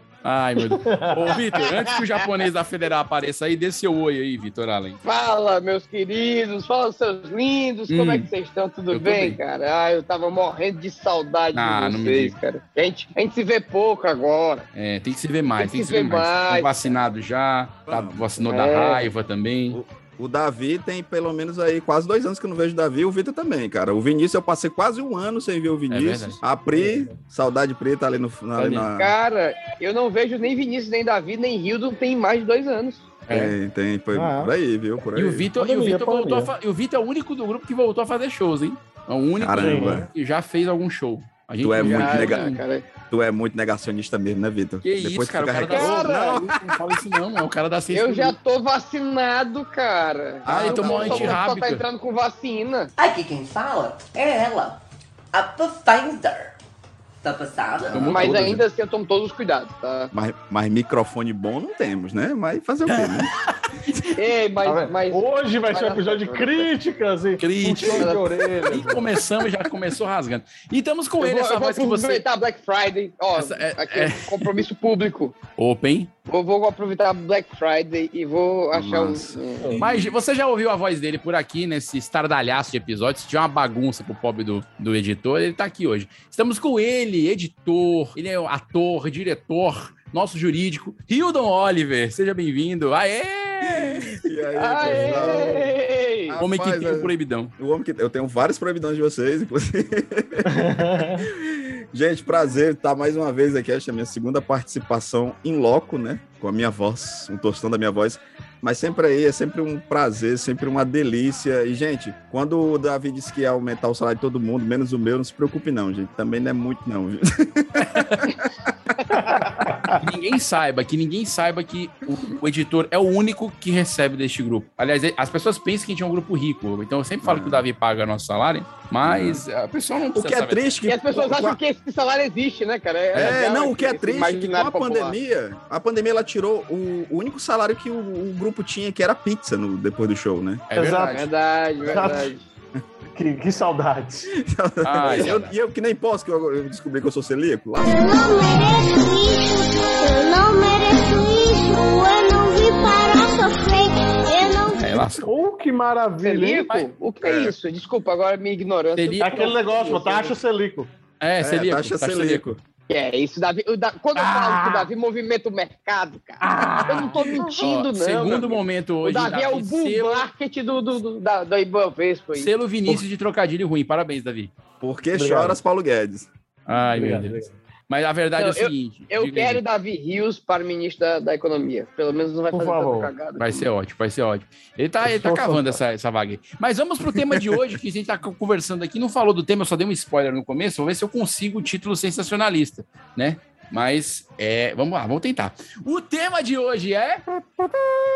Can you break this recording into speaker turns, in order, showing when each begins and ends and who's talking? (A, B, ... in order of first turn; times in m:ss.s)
0:00.2-0:05.0 A
0:00.8-0:01.4 B
0:05.0-0:14.6 C
0:07.9-0:08.3 A
0:08.9-0:09.4 A
0:11.5-0:12.3 A
0:14.7-0:19.8 A
0:15.6-0:17.0 C
0:17.9-0:18.5 D
0:18.5-0:19.1 C
0:19.7-0:29.1 D
0:25.9-0:26.4 A
0:26.7-0:27.1 B
0:28.6-0:28.9 A
0:28.9-0:33.1 C
0:33.3-0:33.5 A
0:33.3-0:35.5 D
0:34.1-0:34.5 B
0:35.1-0:42.6 A
0:35.6-0:36.5 B
0:39.4-0:40.1 D
0:39.6-0:40.1 B
0:41.6-0:42.5 D
0:41.8-0:42.8 C
0:43.1-0:47.0 D
0:44.8-0:48.3 A
0:45.7-0:46.5 C
0:47.9-0:52.9 C
0:50.4-0:51.4 D
0:50.5-0:51.8 A
0:53.0-0:54.8 E
0:55.3-0:56.5 E
0:57.2-0:58.1 E
0:57.9-0:58.6 D
0:57.9-0:58.6 A
0:58.1-1:00.1 C
1:00.1-1:03.3 D
1:04.2-1:06.7 C
1:04.6-1:09.2 B
1:07.4-1:08.2 A
1:08.0-1:08.2 C
1:08.7-1:12.2 A
1:11.2-1:15.4 C
1:13.4-1:14.6 A
1:15.6-1:16.1 A
1:16.3-1:19.7 C
1:18.7-1:20.1 D
1:19.8-1:34.2 A
1:33.6-1:35.7 D
1:34.6-1:36.4 C
1:34.8-1:35.7 B
1:36.3-1:58.3 D
1:36.4-1:37.5 A
1:40.4-1:41.3 B
1:58.0-1:58.2 A
1:59.1-2:00.0 B
2:00.0-2:10.6 A
2:07.2-2:07.6 D
2:09.0-2:09.4 D
2:10.1-2:11.6 D
2:10.9-2:15.2 C
2:13.1-2:20.6 D
2:20.7-2:21.2 A
2:20.7-2:21.2 B
2:21.0-2:22.4 C
2:21.8-2:22.3 B
2:23.1-2:24.3 B
2:24.4-2:28.2 D
2:24.8-2:25.5 A
2:27.8-2:35.0 F
2:34.7-2:35.3 A
2:35.2-2:36.7 B
2:36.2-2:40.2 C
2:37.2-2:37.5 D
2:39.0-2:40.2 A
2:39.2-2:40.9 B
2:41.2-2:42.6 A
2:41.4-2:42.6 D
2:42.9-2:52.5 C
2:44.2-2:44.9 A
2:46.4-2:50.3 A
2:52.3-2:54.5 A
2:54.8-2:56.3 D
2:55.1-2:55.6 B
2:56.7-2:59.6 A
2:56.8-2:57.5 B
2:58.4-3:03.6 C
3:02.5-3:03.1 B
3:03.4-3:17.2 A
3:05.0-3:05.8 D
3:07.2-3:07.5 D